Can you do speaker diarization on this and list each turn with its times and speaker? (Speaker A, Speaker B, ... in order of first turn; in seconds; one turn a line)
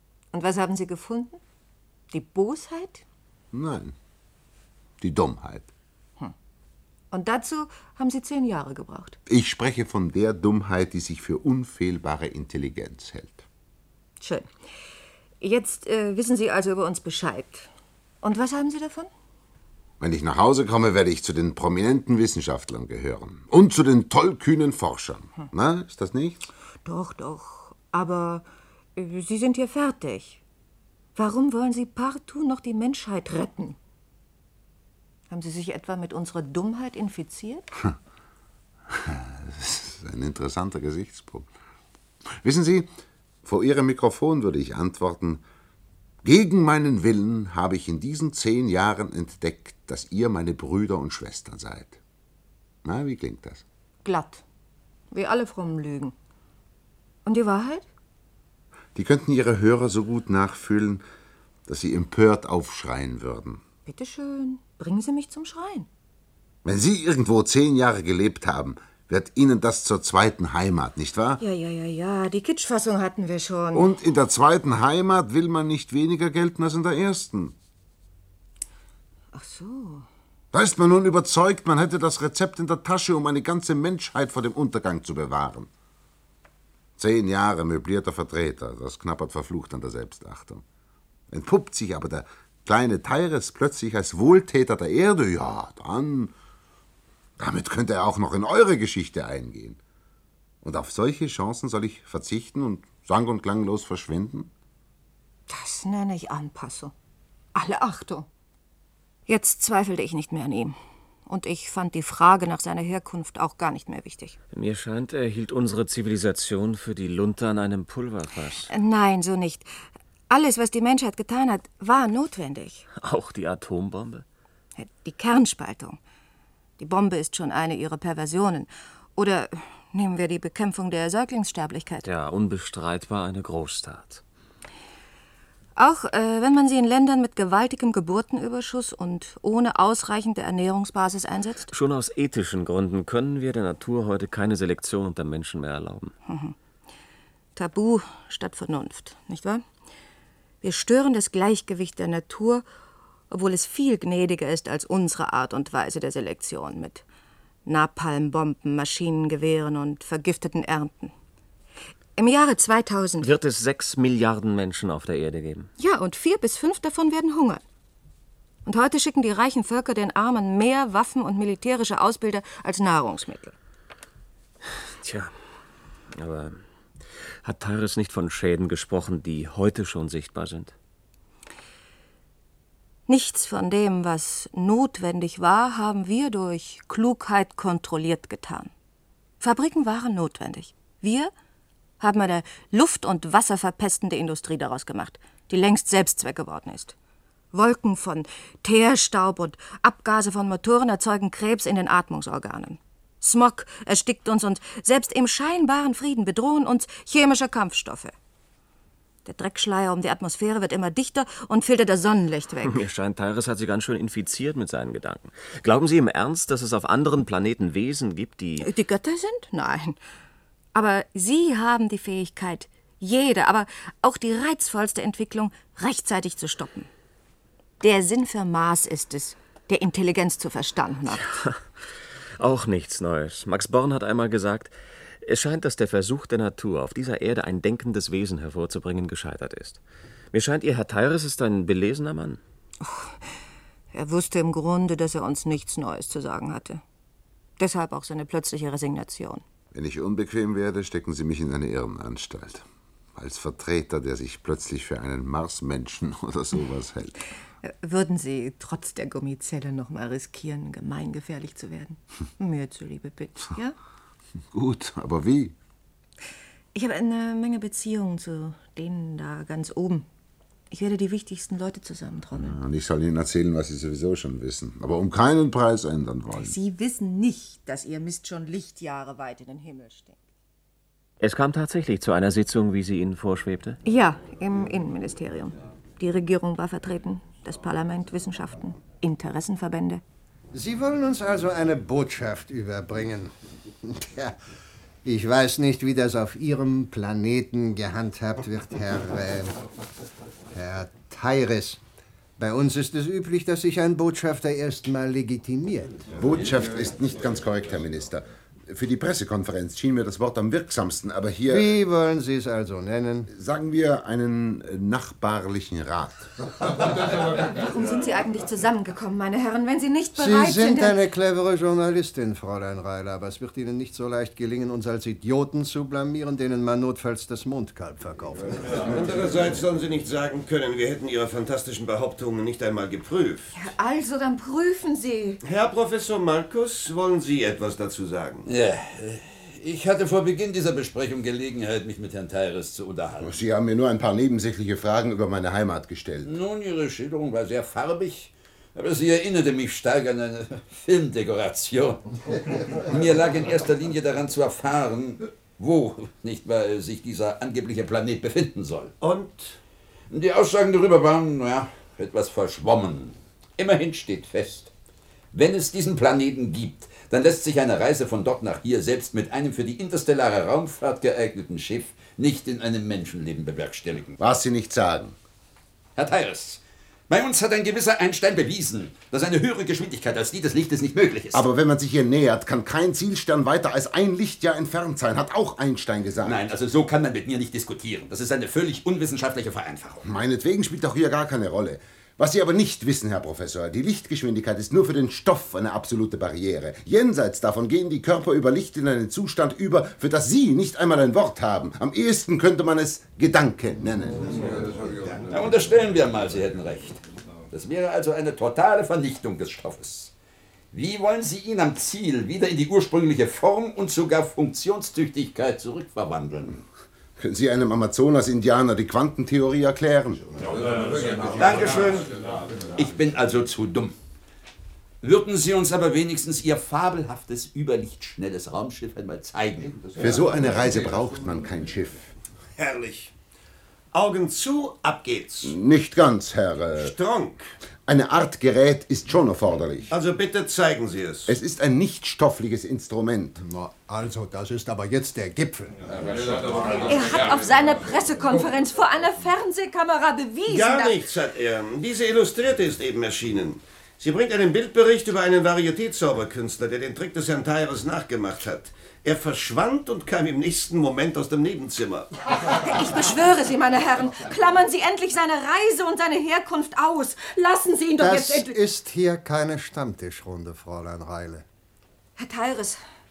Speaker A: 0.3-1.4
Speaker A: 2.1-3.0
Speaker B: 3.5-3.9
Speaker B: 5.0-5.7
Speaker A: 7.1-9.2
Speaker B: 9.3-13.4
Speaker A: 14.2-14.5
Speaker A: 15.4-17.7
Speaker A: 18.2-19.1
Speaker B: 20.0-26.5
Speaker A: 26.8-28.4
Speaker A: 28.9-30.4
Speaker A: 31.1-33.8
Speaker A: 35.3-37.6
Speaker B: 38.9-41.5
Speaker B: 42.4-42.9
Speaker B: 43.4-45.4
Speaker B: 46.2-52.0
Speaker B: 52.8-53.6
Speaker A: 54.0-54.4
Speaker A: 55.1-56.1
Speaker A: 57.2-57.9
Speaker B: 58.9-61.0
Speaker B: 61.7-63.6
Speaker A: 63.9-65.9
Speaker B: 66.6-71.4
Speaker A: 71.4-73.9
Speaker B: 73.7-77.5
Speaker A: 79.3-80.1
Speaker B: 80.5-85.7
Speaker B: 87.0-90.6
Speaker B: 91.3-96.3
Speaker B: 97.4-99.8
Speaker B: 100.6-104.5
Speaker A: 105.5-106.9
Speaker A: 107.5-108.3
Speaker A: 109.3-110.8
Speaker A: 111.3-114.4
Speaker C: 114.5-118.7
Speaker A: 118.7-119.7
Speaker A: 120.3-122.8
Speaker C: 123.0-124.2
Speaker A: 124.8-126.0
Speaker A: 126.8-132.1
Speaker C: 132.0-134.2
Speaker A: 135.8-141.7
Speaker C: 141.7-146.1
Speaker A: 146.3-146.5
Speaker A: 147.6-149.6
Speaker A: 150.6-152.6
Speaker A: 153.3-157.0
Speaker A: 157.7-161.1
Speaker A: 162.2-163.3
Speaker C: 163.2-165.7
Speaker A: 165.8-167.6
Speaker A: 168.7-173.6
Speaker C: 175.0-175.4
Speaker C: 176.1-176.6
Speaker C: 177.4-180.7
Speaker A: 183.1-188.7
Speaker A: 189.4-191.3
Speaker A: 192.0-196.9
Speaker A: 197.5-208.1
Speaker A: 209.2-212.8
Speaker C: 212.7-218.7
Speaker A: 218.6-220.0
Speaker A: 220.7-226.9
Speaker A: 227.8-231.3
Speaker C: 231.1-239.8
Speaker C: 240.3-242.4
Speaker A: 242.8-243.2
Speaker A: 243.9-246.8
Speaker A: 247.6-249.4
Speaker B: 249.7-257.1
Speaker A: 257.6-263.7
Speaker B: 264.5-265.5
Speaker A: 266.7-270.1
Speaker A: 270.7-272.6
Speaker B: 272.3-276.6
Speaker A: 276.3-280.2
Speaker C: 281.2-283.8
Speaker A: 283.8-290.0
Speaker D: 290.5-294.3
Speaker D: 295.0-299.5
Speaker D: 300.5-301.8
Speaker D: 302.4-306.1
Speaker B: 306.1-311.7
Speaker D: 311.5-313.3
Speaker B: 313.3-316.3
Speaker A: 317.3-321.0
Speaker D: 320.1-328.8
Speaker E: 328.7-333.5
Speaker A: 333.5-335.4
Speaker E: 335.4-338.5
Speaker F: 338.5-343.4
Speaker B: 343.2-346.3
Speaker F: 346.2-358.9
Speaker E: 359.0-359.6
Speaker F: 360.1-364.7
Speaker F: 365.3-374.1
Speaker B: 374.2-375.1
Speaker F: 375.9-381.4
Speaker B: 381.3-386.4
Speaker F: 386.2-390.0
Speaker B: 390.0-405.0
Speaker F: 405.0-410.1
Speaker F: 410.7-416.6
Speaker B: 417.2-420.4
Speaker F: 420.7-422.1
Speaker F: 422.7-423.9
Speaker F: 425.0-430.4
Speaker B: 430.0-432.1
Speaker E: 432.6-433.1
Speaker E: 433.9-435.5
Speaker B: 435.4-436.9
Speaker E: 436.8-437.5
Speaker B: 437.8-439.9
Speaker E: 439.9-441.3
Speaker B: 441.3-443.4
Speaker D: 443.4-445.9
Speaker A: 446.8-451.0
Speaker E: 450.4-462.1
Speaker A: 462.5-468.5
Speaker D: 468.0-471.4
Speaker A: 472.2-472.8